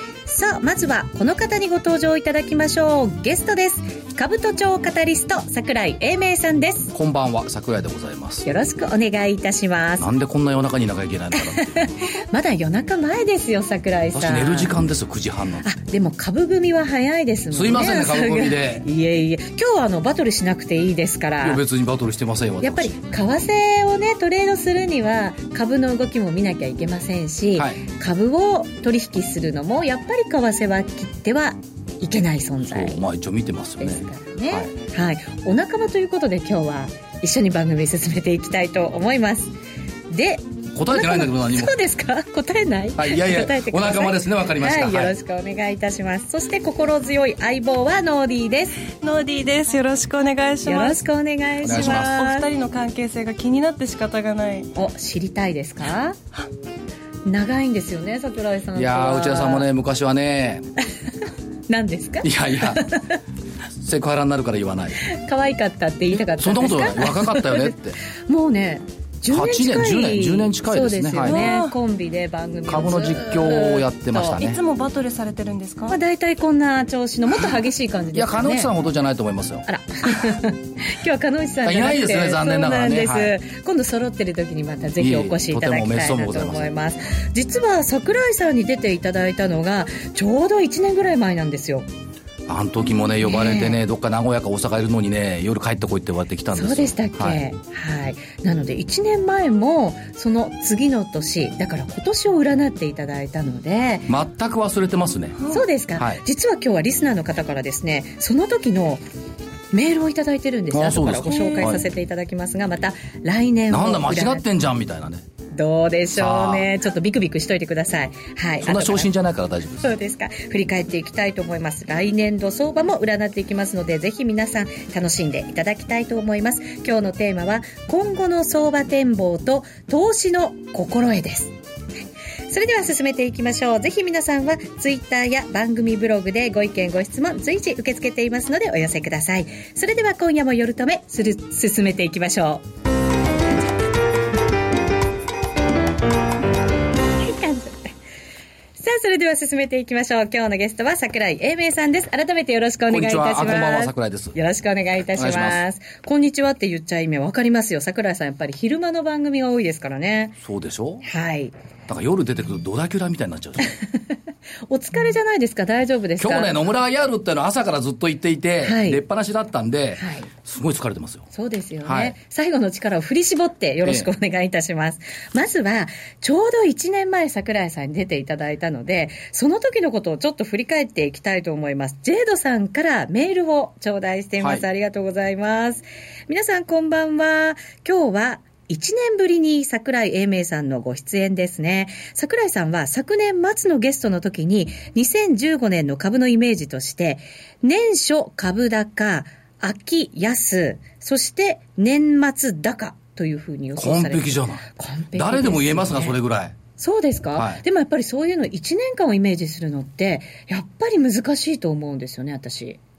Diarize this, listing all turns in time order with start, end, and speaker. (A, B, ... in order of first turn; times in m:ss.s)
0:00.3-0:06.9 A
0:06.9-0:08.5 B
0:08.4-0:10.1 A
0:10.0-0:11.7 B
0:11.3-0:14.7 A
0:14.1-0:15.7 B
0:15.6-0:21.6 A
0:17.5-0:18.8 B
0:21.4-0:22.9 B
0:22.6-0:33.0 A
0:27.6-0:27.8 B
0:32.7-0:34.7 B
0:33.8-0:39.5 A
0:40.1-0:48.8 A
0:40.8-0:41.7 B
0:43.0-0:45.2 B
0:49.0-0:51.0 C
0:50.6-0:52.5 A
0:51.6-0:52.2 B
0:51.7-0:54.7 C
0:54.8-0:56.2 A
0:57.3-0:59.7 A
0:58.7-1:00.7 B
1:01.7-1:03.2 A
1:02.2-1:02.9 B
1:03.8-1:05.0 B
1:05.0-1:07.7 A
1:06.4-1:08.0 B
1:08.3-1:14.4 A
1:09.3-1:11.4 B
1:11.2-1:11.7 C
1:12.7-1:14.6 B
1:14.4-1:16.0 C
1:15.9-1:18.7 A
1:18.1-1:19.7 B
1:19.7-1:31.9 A
1:21.6-1:23.4 B
1:25.0-1:26.7 B
1:32.5-1:37.4 B
1:33.2-1:33.8 A
1:36.5-1:44.1 A
1:44.1-1:45.4 B
1:45.4-1:45.7 C
1:45.5-1:49.0 A
1:46.0-1:46.2 B
1:49.7-1:54.4 A
1:50.7-1:51.8 B
1:53.7-1:55.2 B
1:55.5-1:59.1 A
1:56.2-1:56.7 B
1:58.6-1:59.9 B
1:59.8-2:11.5 A
2:12.5-2:22.6 A
2:27.2-2:27.9 A
2:28.8-2:40.4 A
2:32.9-2:34.4 B
2:35.2-2:35.6 B
2:40.4-2:41.0 B
2:41.0-2:41.5 A
2:41.9-2:43.7 B
2:43.6-2:44.0 A
2:44.7-2:46.6 A
2:46.2-2:51.2 B
2:48.6-2:49.0 A
2:50.0-2:50.3 A
2:51.3-3:26.2 A
2:51.8-2:52.2 B
2:53.8-2:54.1 B
3:04.4-3:04.6 B
3:23.8-3:26.6 B
3:26.8-3:32.8 A
3:27.4-3:27.6 B